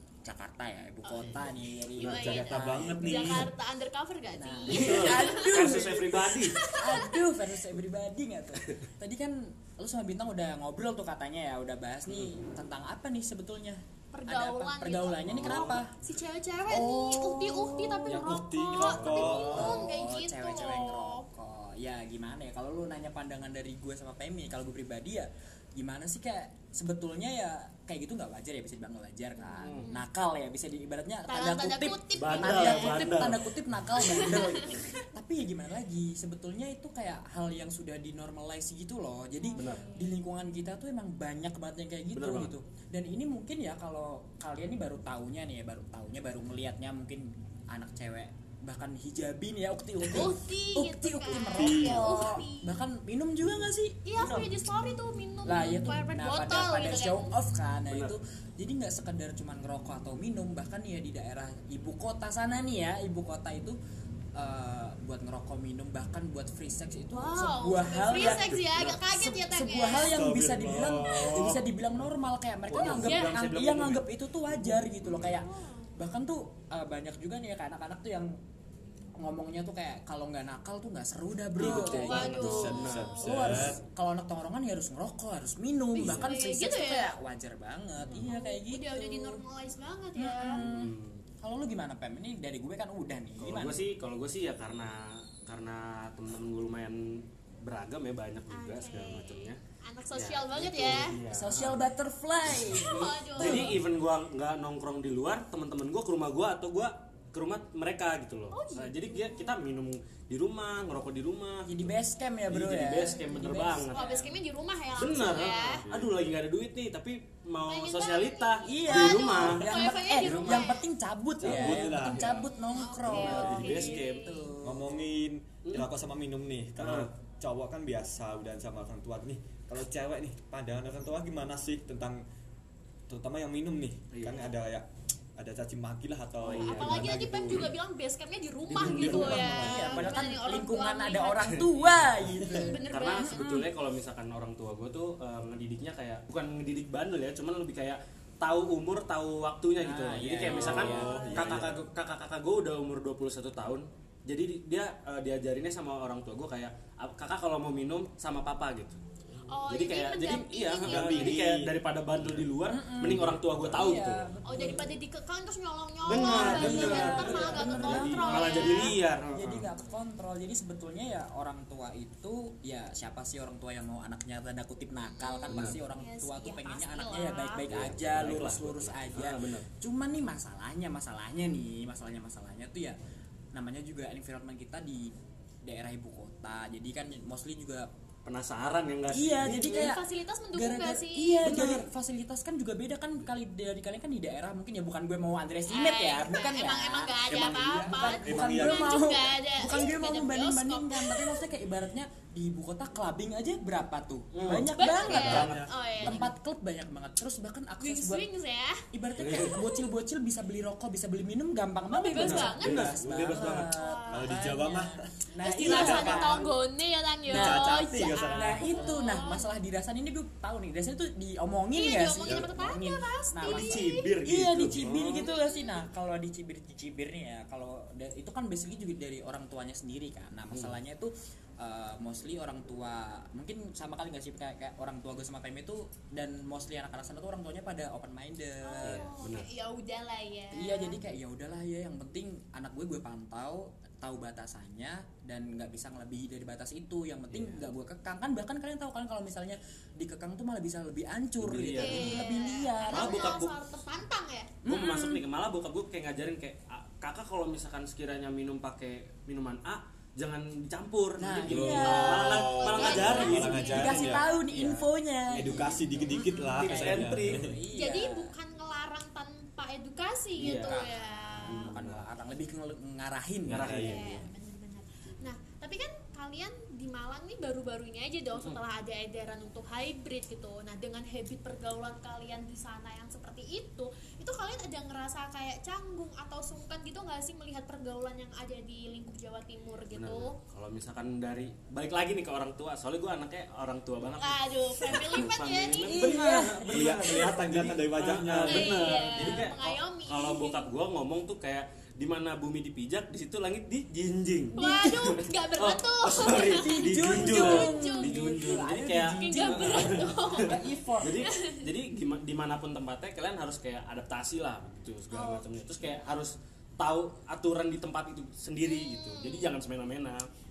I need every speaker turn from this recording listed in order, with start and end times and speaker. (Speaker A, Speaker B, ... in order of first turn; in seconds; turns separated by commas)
Speaker A: 0.2-3.4, Speaker B: 1.0-7.2, Speaker C: 2.2-3.5, Speaker A: 4.3-15.9, Speaker D: 4.7-6.6, Speaker B: 14.1-21.2, Speaker D: 15.2-15.8, Speaker A: 16.7-54.5, Speaker C: 18.1-19.8, Speaker D: 18.8-19.1, Speaker B: 29.6-30.0, Speaker B: 31.3-33.1, Speaker D: 32.2-34.2, Speaker B: 34.0-35.0, Speaker B: 39.4-40.1, Speaker D: 39.5-39.8, Speaker D: 42.1-42.5, Speaker B: 50.1-52.8, Speaker C: 51.5-52.0, Speaker B: 54.0-57.3, Speaker A: 55.5-63.8, Speaker D: 57.9-58.1, Speaker A: 64.3-68.6, Speaker B: 67.1-70.1, Speaker D: 68.7-69.0, Speaker A: 69.1-75.5, Speaker C: 70.0-71.6, Speaker D: 72.7-75.4, Speaker B: 72.9-73.3, Speaker B: 75.3-76.0, Speaker A: 76.0-78.3, Speaker A: 79.2-89.4, Speaker C: 81.6-83.8, Speaker B: 81.6-83.3, Speaker D: 82.5-83.7, Speaker B: 85.9-87.1, Speaker C: 86.0-86.3, Speaker D: 88.1-88.3, Speaker B: 88.1-90.6, Speaker A: 90.2-93.8, Speaker D: 90.5-91.2, Speaker D: 93.4-99.6, Speaker B: 98.5-101.2, Speaker D: 100.1-101.8, Speaker A: 101.3-103.8, Speaker B: 102.5-103.8, Speaker D: 103.4-111.9, Speaker B: 108.5-109.5, Speaker A: 111.7-114.0, Speaker D: 112.5-114.3, Speaker B: 113.9-115.8, Speaker D: 115.0-120.7, Speaker C: 115.5-116.1, Speaker B: 117.7-120.8, Speaker A: 118.7-124.9, Speaker C: 121.4-122.4, Speaker D: 121.5-122.4, Speaker B: 122.7-124.5, Speaker D: 123.1-124.3, Speaker C: 123.1-123.8, Speaker C: 124.6-132.2, Speaker D: 126.8-127.1, Speaker C: 133.1-137.7, Speaker D: 134.1-134.5, Speaker D: 136.4-137.6, Speaker B: 136.5-141.7, Speaker C: 138.7-140.1, Speaker D: 138.7-139.6, Speaker A: 139.2-143.7, Speaker D: 141.4-142.3, Speaker B: 142.3-143.5, Speaker D: 142.9-159.0, Speaker A: 149.8-151.6, Speaker C: 150.4-151.8, Speaker B: 150.8-151.3, Speaker B: 159.5-161.4, Speaker D: 159.7-164.3, Speaker C: 160.8-164.0, Speaker A: 162.7-165.0, Speaker B: 164.4-169.0, Speaker D: 166.1-169.7, Speaker A: 166.2-182.9, Speaker C: 166.3-167.6, Speaker B: 175.1-177.7, Speaker D: 175.5-175.8, Speaker D: 177.6-179.7, Speaker A: 183.5-185.1, Speaker A: 185.6-187.9, Speaker D: 188.2-190.0, Speaker A: 189.1-190.0, Speaker B: 189.4-191.9, Speaker A: 190.5-205.5, Speaker D: 191.5-191.8, Speaker B: 195.7-201.4, Speaker C: 197.3-198.9, Speaker D: 204.3-206.2, Speaker B: 204.7-206.3, Speaker C: 205.1-205.7, Speaker A: 206.0-208.2, Speaker B: 207.8-209.8, Speaker A: 208.9-216.5, Speaker D: 209.2-209.6, Speaker B: 211.9-212.8, Speaker D: 212.1-213.7, Speaker C: 212.2-216.4, Speaker B: 213.6-214.5, Speaker B: 215.4-219.5, Speaker A: 217.3-217.7, Speaker C: 217.3-218.8, Speaker A: 218.2-239.0, Speaker B: 221.7-224.1, Speaker D: 223.4-225.3, Speaker B: 225.0-225.8, Speaker D: 230.5-230.8, Speaker B: 238.6-241.0, Speaker D: 238.8-239.5, Speaker A: 240.5-253.4, Speaker D: 247.3-247.7, Speaker D: 251.4-252.2, Speaker B: 251.7-254.6, Speaker D: 252.9-253.6, Speaker A: 254.6-255.2, Speaker D: 254.7-265.8, Speaker A: 261.2-268.3, Speaker B: 261.4-264.4, Speaker C: 262.2-264.3, Speaker C: 265.3-267.5, Speaker B: 266.0-266.8, Speaker D: 266.6-267.4, Speaker B: 267.7-271.8, Speaker D: 270.4-270.8, Speaker A: 270.4-273.8, Speaker D: 271.4-272.0, Speaker D: 273.4-274.2, Speaker C: 273.5-274.1, Speaker B: 273.7-290.4, Speaker D: 289.9-304.6, Speaker B: 294.2-296.2, Speaker A: 295.9-297.2, Speaker C: 296.7-299.4, Speaker B: 298.4-300.7, Speaker B: 304.5-311.6, Speaker A: 304.6-305.1, Speaker D: 305.1-320.3, Speaker A: 306.4-311.2, Speaker B: 315.1-315.6, Speaker B: 318.6-319.6